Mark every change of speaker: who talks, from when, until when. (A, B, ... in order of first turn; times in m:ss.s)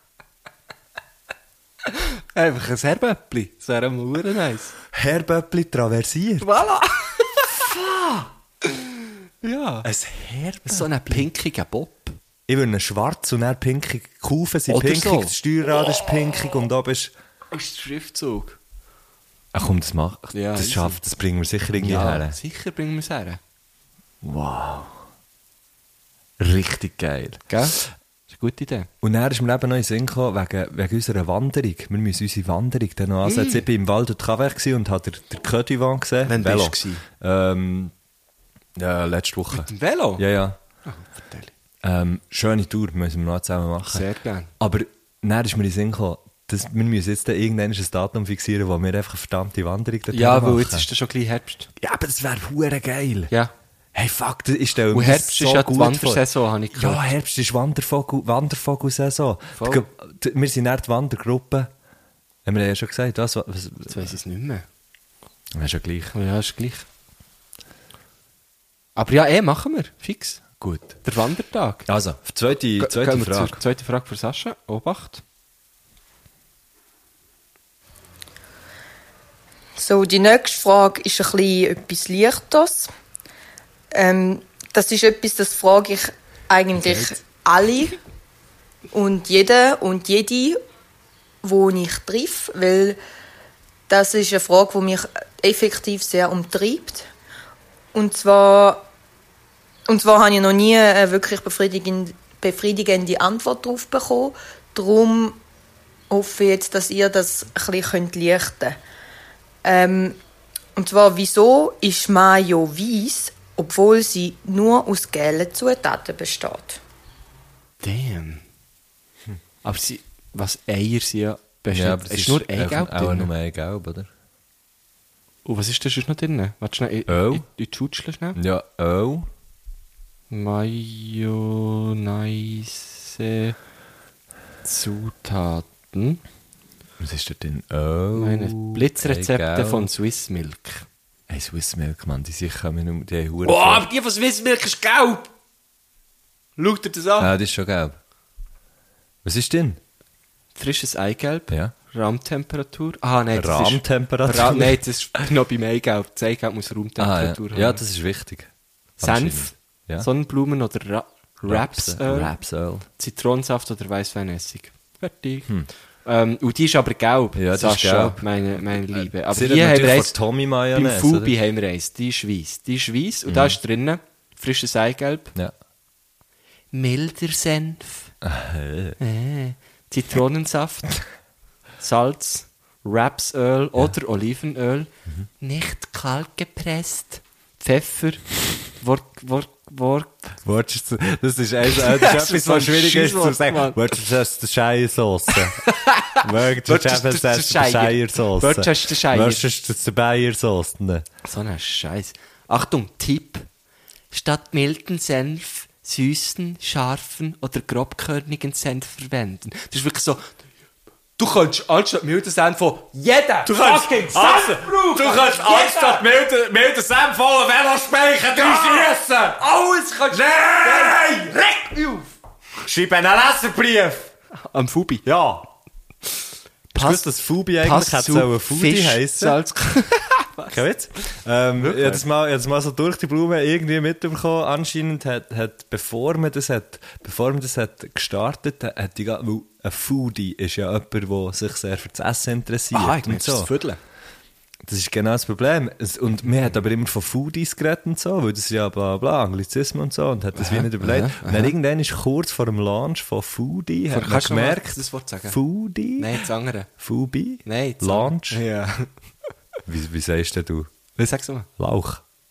0:01.9-0:04.7 A
0:04.9-0:06.6 B
0:06.4-0:07.6 A
0:07.6-0:08.3 B
0:08.7-0:09.9 A
0:09.8-0:11.3 B
0:10.6-0:12.2 A
0:12.5-0:17.1 B
0:14.7-0:15.3 A
0:17.5-0:18.6 A
0:19.5-0:22.4 B
0:20.3-0:21.0 A
0:21.8-0:23.4 A
0:24.2-0:25.0 B
0:26.4-0:27.8 B
0:27.5-0:27.8 A
0:28.3-0:28.9 A
0:29.0-0:37.9 B
0:33.2-0:33.6 A
0:36.2-0:37.0 A
0:38.8-0:40.6 B
0:39.5-0:40.2 A
0:40.8-0:41.5 A
0:41.8-0:44.0 B
0:43.8-0:44.5 A
0:44.6-0:50.9 B
0:50.1-0:51.7 A
0:51.8-0:53.3 B
0:53.9-1:01.7 B
0:54.9-0:57.1 A
0:59.6-0:59.8 A
1:02.4-1:04.2 B
1:03.8-1:04.6 A
1:05.5-1:06.1 B
1:06.1-1:06.8 A
1:09.0-1:11.9 A
1:10.6-1:10.9 B
1:11.9-1:13.6 B
1:12.8-1:15.2 A
1:19.8-1:22.9 C
1:23.9-1:28.0 C
1:28.9-1:30.6 C
1:31.4-1:33.0 C
1:33.9-1:37.1 C
1:37.9-1:38.8 C
1:39.9-1:45.4 C
1:46.1-1:48.8 C
1:49.6-1:50.2 C
1:50.8-1:56.8 C
1:57.8-1:58.4 A
1:59.6-2:03.3 A
2:01.7-2:04.1 B
2:05.4-2:08.4 A
2:07.1-2:07.4 B
2:08.3-2:09.3 B
2:10.3-2:13.6 A
2:14.6-2:16.2 A
2:17.0-2:19.9 B
2:18.2-2:20.8 A
2:21.3-2:23.9 B
2:23.4-2:25.3 A
2:26.6-2:27.3 A
2:27.2-2:28.0 B
2:29.2-2:29.8 B
2:30.6-2:37.8 A
2:31.5-2:31.7 B
2:33.3-2:34.8 B
2:37.0-2:40.1 B
2:39.0-2:42.3 A
2:41.4-2:42.9 B
2:43.0-2:50.2 A
2:47.4-2:51.3 B
2:50.7-2:55.3 A
2:53.3-2:53.6 B
2:56.7-2:58.1 A
2:58.2-2:59.0 B
2:59.0-3:01.0 A
3:01.8-3:10.4 A
3:10.4-3:21.0 B
3:11.7-3:13.8 A
3:15.3-3:19.4 A
3:21.2-3:23.5 A
3:24.1-3:30.3 A
3:31.2-3:36.1 A
3:33.4-3:39.4 D
3:38.4-3:38.8 A
3:39.6-3:42.0 A
3:40.1-3:41.2 D
3:42.7-3:44.0 D
3:44.5-3:45.0 A
3:45.0-3:45.4 B
3:46.7-3:50.6 A
3:46.7-3:49.4 B
3:50.5-4:03.5 B
3:51.6-3:52.0 A
4:02.7-4:03.8 A
4:04.6-4:16.2 B
4:10.3-4:11.5 A
4:13.9-4:15.4 A
4:16.0-4:16.7 A
4:16.8-4:18.4 B
4:17.4-4:18.9 A
4:19.6-4:20.7 B
4:21.0-4:21.5 A
4:21.6-4:22.0 B